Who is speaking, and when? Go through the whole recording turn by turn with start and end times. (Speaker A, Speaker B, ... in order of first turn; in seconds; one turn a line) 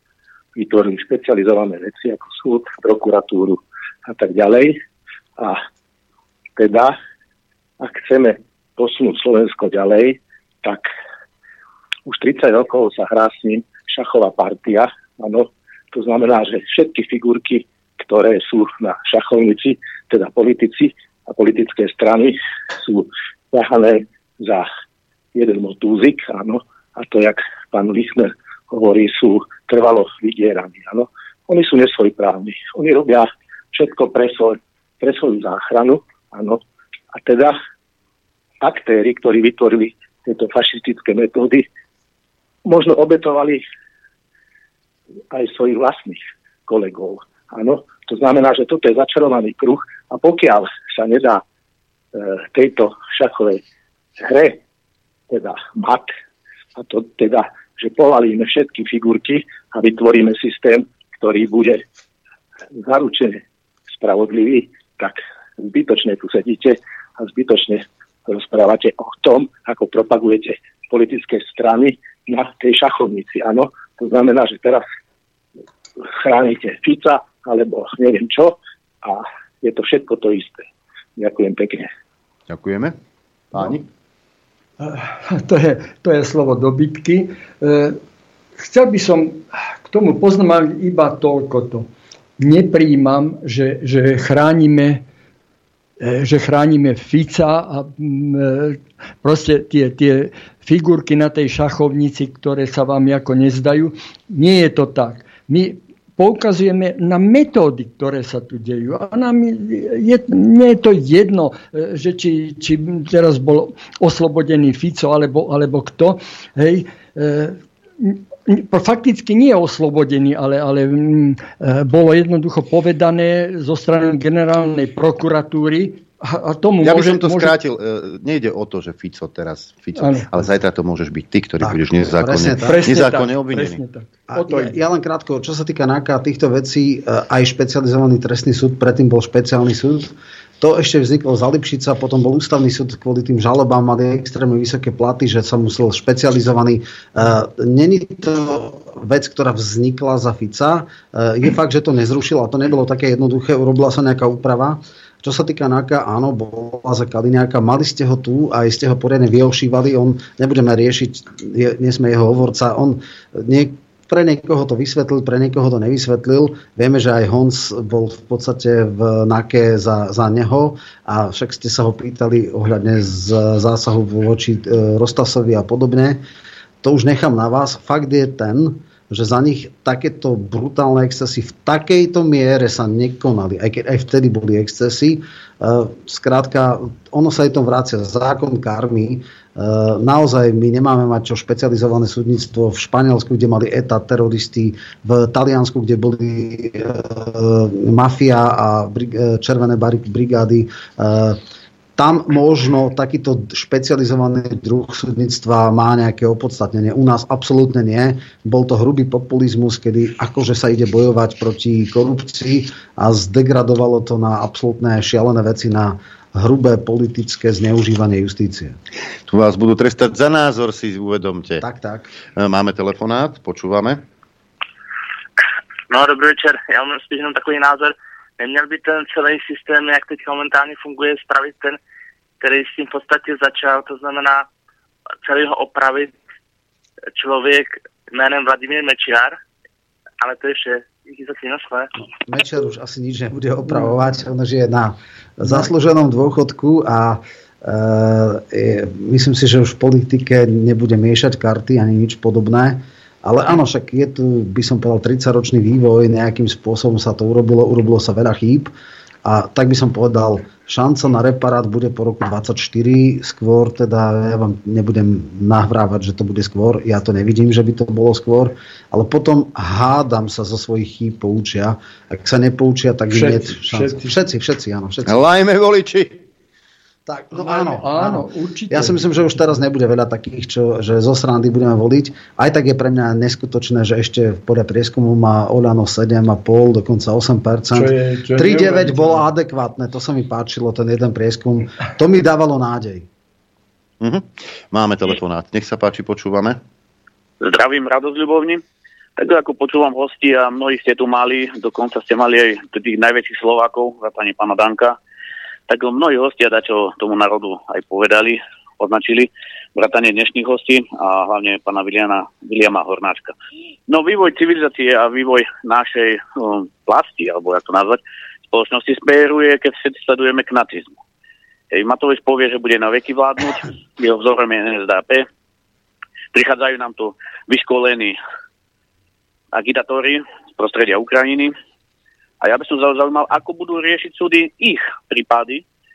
Speaker A: 0.6-4.8
Speaker A: 6.6-7.0
Speaker A: 7.8-10.9
Speaker A: 12.1-24.7
Speaker A: 25.3-36.6
Speaker A: 37.1-37.5
Speaker A: 38.6-41.6
Speaker A: 42.6-43.6
Speaker A: 45.3-51.4
Speaker A: 52.1-53.6
Speaker A: 54.2-54.6
Speaker A: 55.3-56.1
Speaker A: 56.8-61.8
Speaker A: 62.7-74.8
Speaker A: 76.1-81.9
Speaker B: 82.5-82.9
Speaker B: 83.5-83.8
Speaker C: 84.8-88.0
Speaker C: 88.6-91.9
Speaker C: 92.4-95.0
Speaker C: 96.0-127.5
Speaker B: 126.8-133.8
Speaker C: 130.0-130.3
Speaker D: 131.6-132.8
Speaker C: 132.5-134.8
Speaker D: 134.3-176.2
Speaker D: 176.8-201.4
Speaker D: 202.0-218.8
Speaker B: 219.2-221.6
Speaker D: 221.6-222.1
Speaker B: 222.3-224.0
Speaker E: 225.9-231.8
Speaker E: 232.4-234.4
Speaker E: 235.2-236.1
Speaker E: 237.2-239.4
Speaker E: 240.2-241.9
Speaker D: 242.2-258.7
Speaker D: 259.2-275.2
Speaker C: 273.1-274.1
Speaker B: 275.0-276.2
Speaker D: 277.1-293.1
Speaker C: 277.3-279.0
Speaker C: 287.7-289.2
Speaker B: 294.0-296.6
Speaker F: 297.4-298.6
Speaker F: 299.2-304.9
Speaker F: 305.7-313.3
Speaker F: 313.9-318.0
Speaker F: 318.5-321.0
Speaker F: 321.7-325.2
Speaker F: 326.3-328.2
Speaker F: 329.5-331.6
Speaker F: 332.4-335.6